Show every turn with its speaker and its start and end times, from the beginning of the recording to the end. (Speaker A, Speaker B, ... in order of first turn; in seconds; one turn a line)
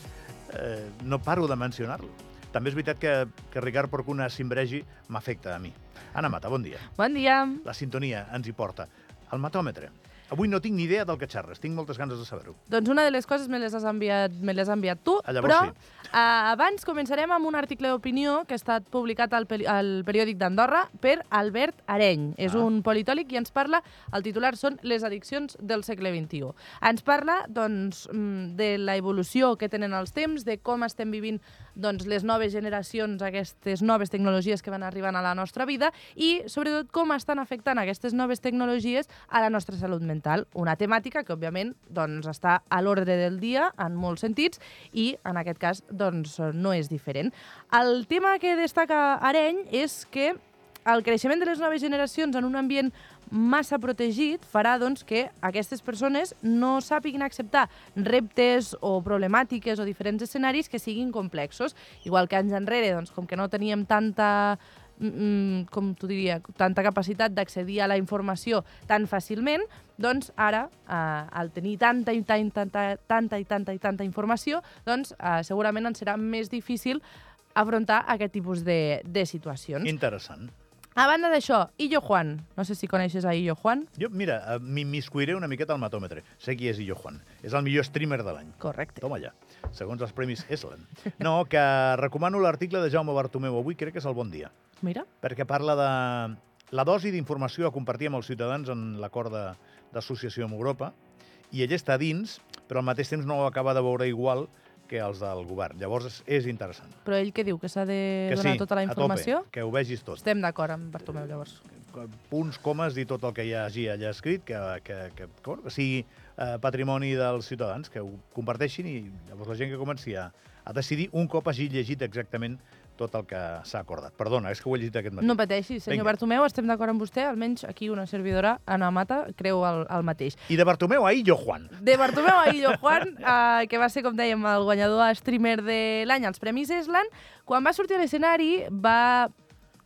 Speaker A: 0.5-6.9
Speaker B: 6.9-7.7
Speaker A: 7.6-12.6
Speaker B: 12.7-77.0
Speaker A: 15.2-15.8
Speaker B: 77.5-79.9
Speaker A: 79.8-80.5
Speaker B: 81.0-83.9
Speaker A: 84.0-94.5
Speaker B: 88.6-89.0
Speaker B: 94.8-95.1
Speaker A: 95.2-101.0
Speaker A: 101.5-107.0
Speaker B: 107.0-109.5
Speaker A: 108.3-110.2
Speaker B: 110.2-111.6
Speaker A: 111.8-126.1
Speaker B: 125.2-130.4
Speaker A: 130.5-132.7
Speaker B: 131.8-139.3